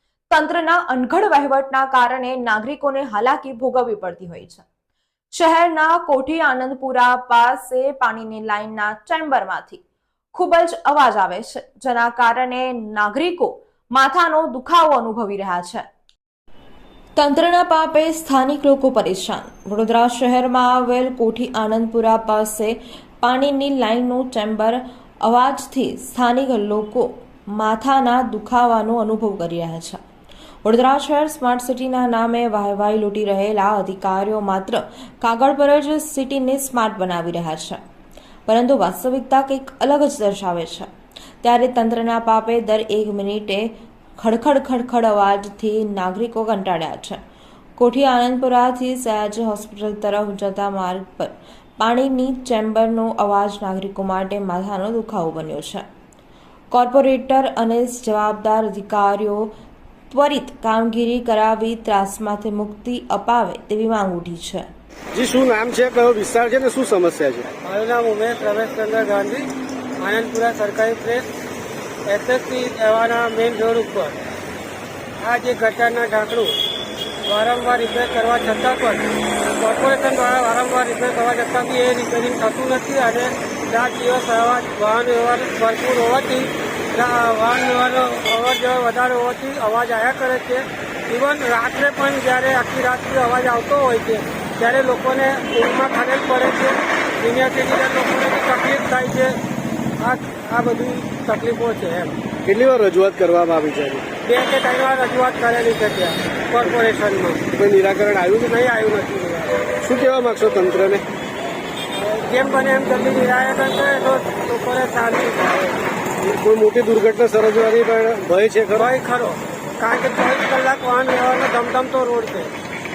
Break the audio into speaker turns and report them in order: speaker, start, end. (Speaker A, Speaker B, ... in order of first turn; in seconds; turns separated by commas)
Speaker A: 0.3-4.6, Speaker A: 5.3-9.8, Speaker A: 10.3-15.8, Speaker A: 17.1-30.0, Speaker A: 30.6-37.8, Speaker A: 38.5-40.9, Speaker A: 41.4-47.2, Speaker A: 47.8-55.8, Speaker A: 56.7-59.5, Speaker A: 60.1-64.7, Speaker B: 65.1-67.5, Speaker C: 67.6-71.3, Speaker C: 72.0-74.2, Speaker C: 75.2-76.6, Speaker C: 77.2-79.0, Speaker C: 79.6-99.4, Speaker C: 100.0-102.2, Speaker B: 102.5-104.1, Speaker C: 104.2-107.5, Speaker B: 107.5-108.5, Speaker C: 108.5-109.7, Speaker B: 109.8-111.0, Speaker C: 111.9-115.8, Speaker B: 116.2-118.9, Speaker C: 118.8-122.5